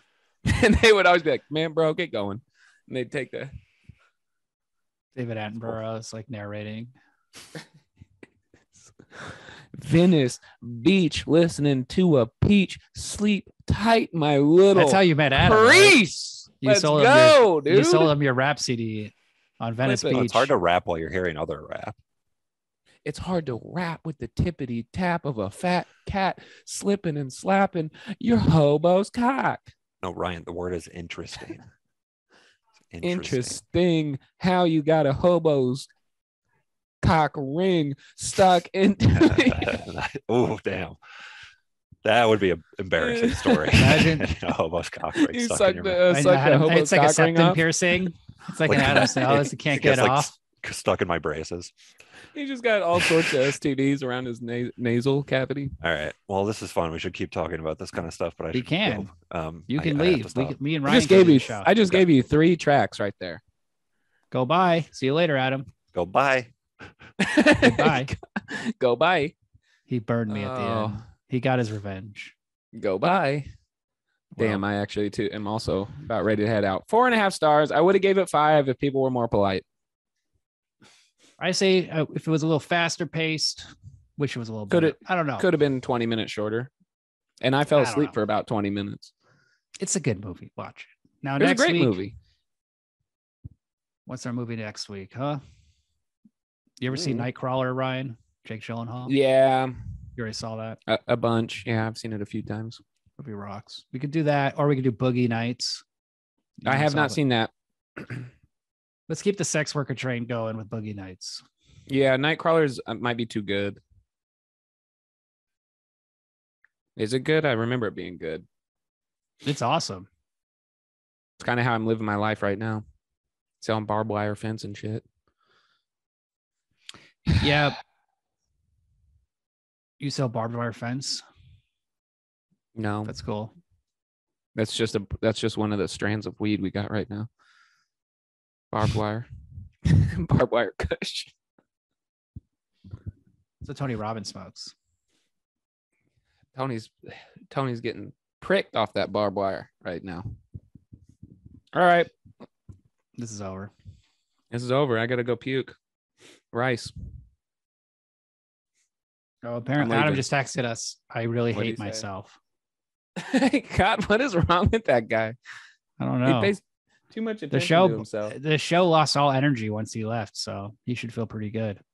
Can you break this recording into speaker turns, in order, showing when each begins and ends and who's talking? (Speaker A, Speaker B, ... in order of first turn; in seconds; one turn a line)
Speaker A: 0.5-3.5
Speaker B: 5.2-6.9
Speaker A: 9.1-18.1
Speaker B: 14.7-16.0
Speaker B: 16.6-20.5
Speaker A: 19.8-20.2
Speaker C: 20.1-22.0
Speaker A: 23.0-29.7
Speaker C: 30.0-31.6
Speaker C: 32.9-33.6
Speaker A: 33.0-35.9
Speaker A: 37.0-39.8
Speaker C: 39.2-41.0
Speaker C: 42.0-46.0
Speaker A: 43.0-43.8
Speaker B: 43.8-44.2
Speaker A: 45.1-48.1
Speaker B: 46.1-50.3
Speaker C: 48.6-51.7
Speaker A: 52.3-55.8
Speaker C: 53.0-53.5
Speaker C: 55.8-60.6
Speaker B: 58.5-59.1
Speaker B: 59.7-61.7
Speaker A: 60.9-63.4
Speaker C: 61.1-62.1
Speaker B: 64.3-65.7
Speaker C: 65.9-66.9
Speaker A: 67.2-69.3
Speaker B: 67.6-68.1
Speaker B: 69.9-72.3
Speaker A: 70.3-71.1
Speaker A: 72.8-73.5
Speaker B: 74.3-74.6
Speaker A: 74.4-79.6
Speaker B: 81.4-85.5
Speaker A: 84.7-86.7
Speaker A: 87.4-89.1
Speaker B: 87.7-88.1
Speaker B: 89.8-92.0
Speaker A: 91.4-92.1
Speaker B: 94.1-95.4
Speaker B: 96.8-99.2
Speaker A: 96.9-97.3
Speaker A: 99.1-99.9
Speaker B: 100.2-100.8
Speaker A: 100.9-102.8
Speaker B: 103.2-105.8
Speaker B: 106.6-107.2
Speaker A: 106.7-108.2
Speaker B: 109.1-111.4
Speaker A: 111.9-113.8
Speaker A: 117.0-118.4
Speaker B: 119.4-120.1
Speaker A: 121.4-122.8
Speaker A: 123.6-125.0
Speaker B: 127.3-127.8
Speaker B: 130.0-131.2
Speaker A: 132.8-133.1
Speaker B: 133.1-133.5
Speaker A: 134.5-137.3
Speaker A: 138.7-139.3
Speaker A: 139.8-141.3
Speaker B: 143.6-144.7
Speaker A: 146.5-150.3
Speaker A: 151.7-152.1
Speaker B: 153.2-153.7
Speaker A: 154.5-155.7
Speaker A: 156.5-156.9
Speaker B: 159.4-162.3
Speaker A: 159.8-160.2
Speaker A: 161.5-162.0
Speaker A: 163.2-165.3
Speaker B: 166.0-166.6
Speaker A: 166.2-168.3
Speaker B: 167.5-171.8